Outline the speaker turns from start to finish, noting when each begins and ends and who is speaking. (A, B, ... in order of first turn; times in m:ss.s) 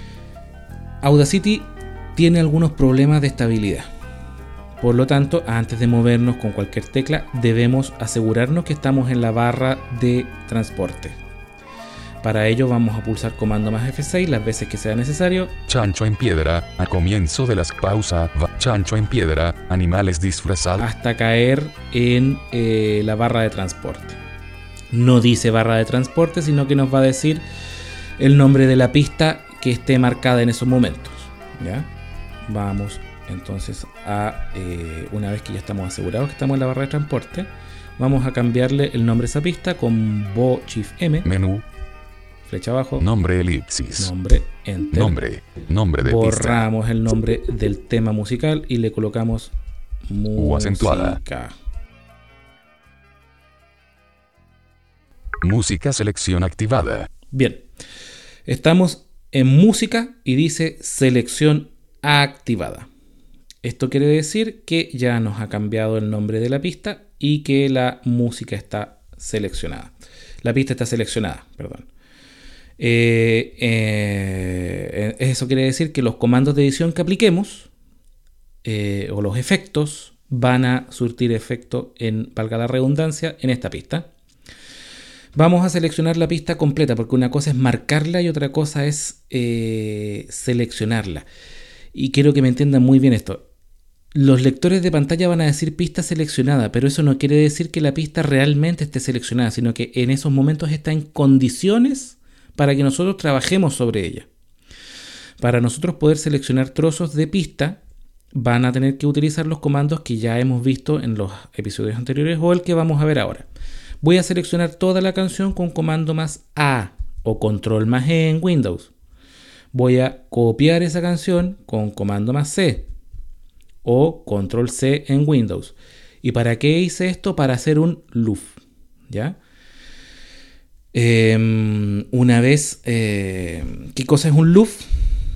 0:01.0-0:03.9 A
0:04.8-0:11.2 A
0:12.2-0:15.6 A
0:15.7-0:20.8 B
0:20.8-0:24.2 A
0:24.9-0:27.4 A
0:28.2-0:31.9 A
0:32.5-0:41.3 A
0:41.2-0:41.6 B
0:42.4-0:43.1 A
0:43.0-0:44.1 B
0:44.0-0:45.2 A
0:44.9-0:46.7 B
0:46.0-0:49.5 A
0:50.1-0:51.5 A
0:50.4-0:51.2 B
0:55.4-0:57.1 B
0:57.3-0:57.6 A
0:58.4-1:02.9 A
1:03.6-1:11.9 A
1:12.8-1:17.7 A
1:18.6-1:24.1 A
1:25.3-1:31.2 A
1:31.9-1:33.4 A
1:34.1-1:44.3 A
1:45.4-1:47.8 A
1:48.3-1:53.5 A
1:54.0-1:58.9 A
1:59.7-2:02.9 A
2:03.8-2:09.4 A
2:10.9-2:14.8 A